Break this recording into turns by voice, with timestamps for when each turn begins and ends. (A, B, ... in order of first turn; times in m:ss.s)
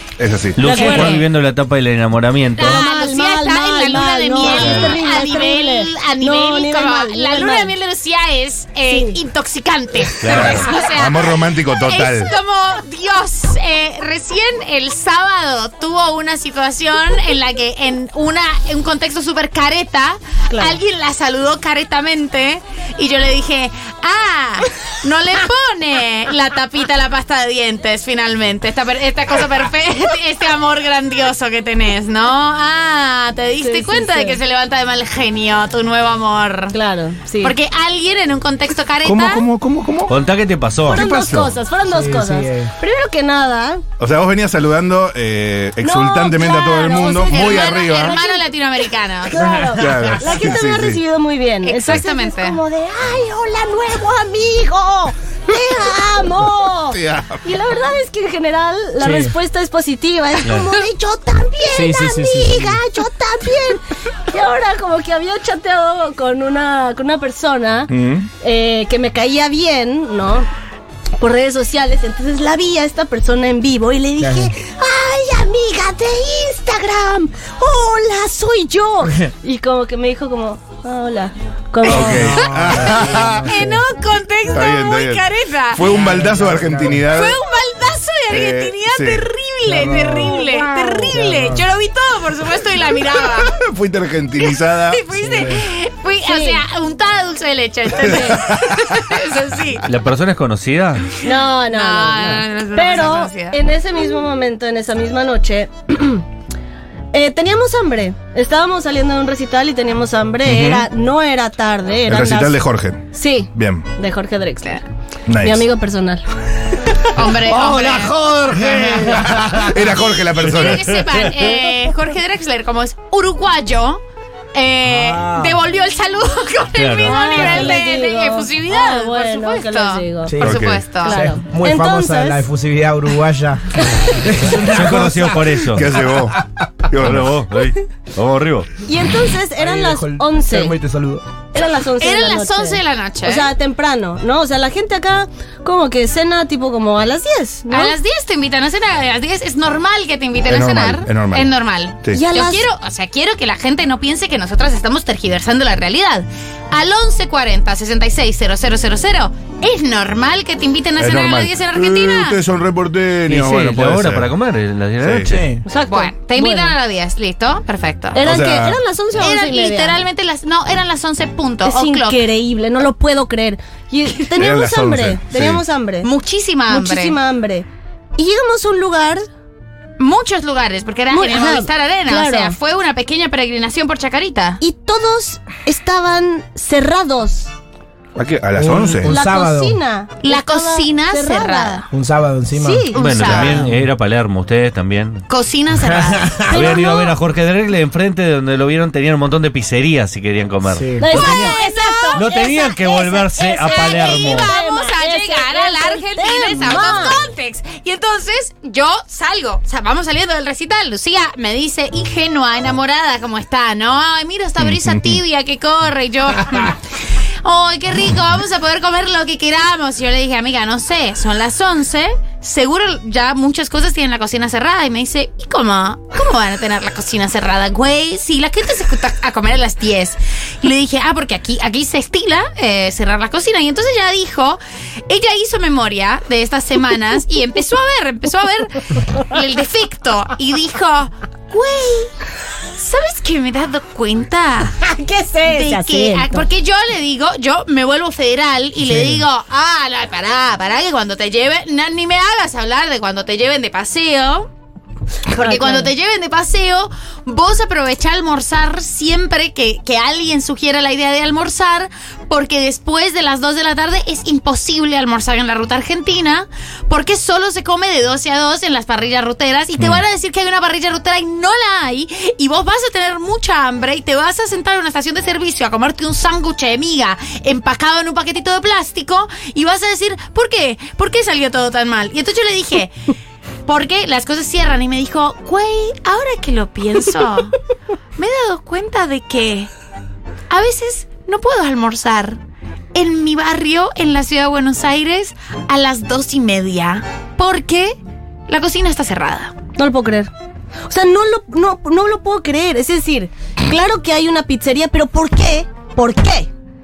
0:00.2-0:01.0 A
0:00.6-0:02.8 B
0:00.6-0:01.2 C
0:02.6-0:36.8 D
0:02.6-0:07.7 C
0:04.5-0:05.0 A
0:08.9-0:09.2 C
0:10.2-0:10.7 B
0:10.3-0:12.3 A
0:20.5-0:20.8 C
0:33.6-0:34.4 C
0:36.7-0:37.6 C
0:37.4-0:39.4 D
0:39.0-0:40.2 A
0:40.1-0:41.0 B
0:40.9-0:41.6 A
0:40.9-0:43.8 C
0:41.8-0:42.7 E
0:44.0-0:48.2 A
0:45.8-0:48.5 C
0:47.3-0:49.4 D
0:49.3-1:10.5 C
0:49.4-0:51.0 A
0:51.6-0:52.6 D
0:56.9-0:57.4 A
0:59.0-0:59.3 E
1:00.5-1:00.7 B
1:01.7-1:02.8 E
1:07.9-1:08.3 A
1:11.2-1:22.4 C
1:14.2-1:14.5 E
1:21.8-1:23.5 A
1:21.9-1:23.8 E
1:23.4-1:25.9 D
1:24.5-1:27.4 A
1:25.8-1:27.1 E
1:27.1-1:33.6 D
1:28.3-1:29.3 A
1:29.7-1:31.6 E
1:30.6-1:31.0 C
1:33.4-1:35.0 A
1:34.4-1:39.9 D
1:35.1-1:35.7 E
1:36.3-1:36.6 C
1:38.0-1:39.0 A
1:39.9-1:41.1 B
1:41.2-1:46.2 C
1:41.7-1:43.6 D
1:47.1-1:52.6 C
1:50.4-1:50.9 A
1:52.1-1:53.8 A
1:53.1-1:54.8 C
1:55.3-1:55.7 A
1:55.4-1:56.2 C
1:57.2-1:58.2 D
1:57.5-1:59.4 B
1:58.6-1:59.7 E
1:58.8-2:00.9 A
2:00.4-2:04.0 D
2:04.5-2:11.2 D
2:04.8-2:05.6 E
2:06.8-2:07.6 B
2:07.0-2:10.4 C
2:10.3-2:15.8 E
2:10.4-2:10.8 A
2:11.0-2:12.5 C
2:13.9-2:14.5 C
2:14.6-2:15.9 B
2:15.7-2:17.3 A
2:17.0-2:18.7 B
2:18.8-2:20.8 C
2:19.6-2:21.2 E
2:21.5-2:27.9 C
2:21.8-2:23.5 D
2:27.7-2:42.4 D
2:30.5-2:31.5 A
2:32.1-2:32.7 C
2:41.0-2:44.3 A
2:43.3-2:45.5 B
2:45.0-2:45.4 A
2:45.2-2:45.6 E
2:45.7-2:46.7 C
2:45.9-2:48.2 D
2:48.2-2:48.8 A
2:48.2-2:50.0 C
2:49.2-2:52.2 D
2:51.6-2:56.1 C
2:54.3-2:55.6 A
2:56.0-2:57.2 D
2:56.7-2:59.2 C
3:00.0-3:04.6 D
3:01.1-3:02.6 C
3:04.6-3:07.5 C
3:08.2-3:09.1 A
3:08.5-3:09.8 E
3:09.0-3:11.8 C
3:10.2-3:11.9 D
3:11.9-3:12.9 E
3:12.5-3:13.2 C
3:13.0-3:13.6 D
3:13.0-3:15.2 B
3:13.4-3:13.8 E
3:15.3-3:16.4 D
3:15.8-3:16.7 E
3:16.5-3:17.2 C
3:16.5-3:21.6 B
3:20.7-3:21.1 E
3:21.0-3:27.2 C
3:21.1-3:22.7 D
3:22.1-3:24.5 B
3:23.4-3:36.8 D
3:34.6-3:35.2 A
3:37.4-4:02.1 D
4:02.8-4:04.8 D
4:04.8-4:06.5 C
4:05.5-4:14.5 D
4:08.8-4:09.2 E
4:15.3-4:15.9 C
4:15.3-4:42.9 D
4:43.7-4:47.5 D
4:48.2-4:49.7 D
4:50.5-4:52.4 D
4:52.9-4:58.0 D
4:58.5-4:59.5 D
4:59.8-5:00.3 C
5:00.9-5:06.5 C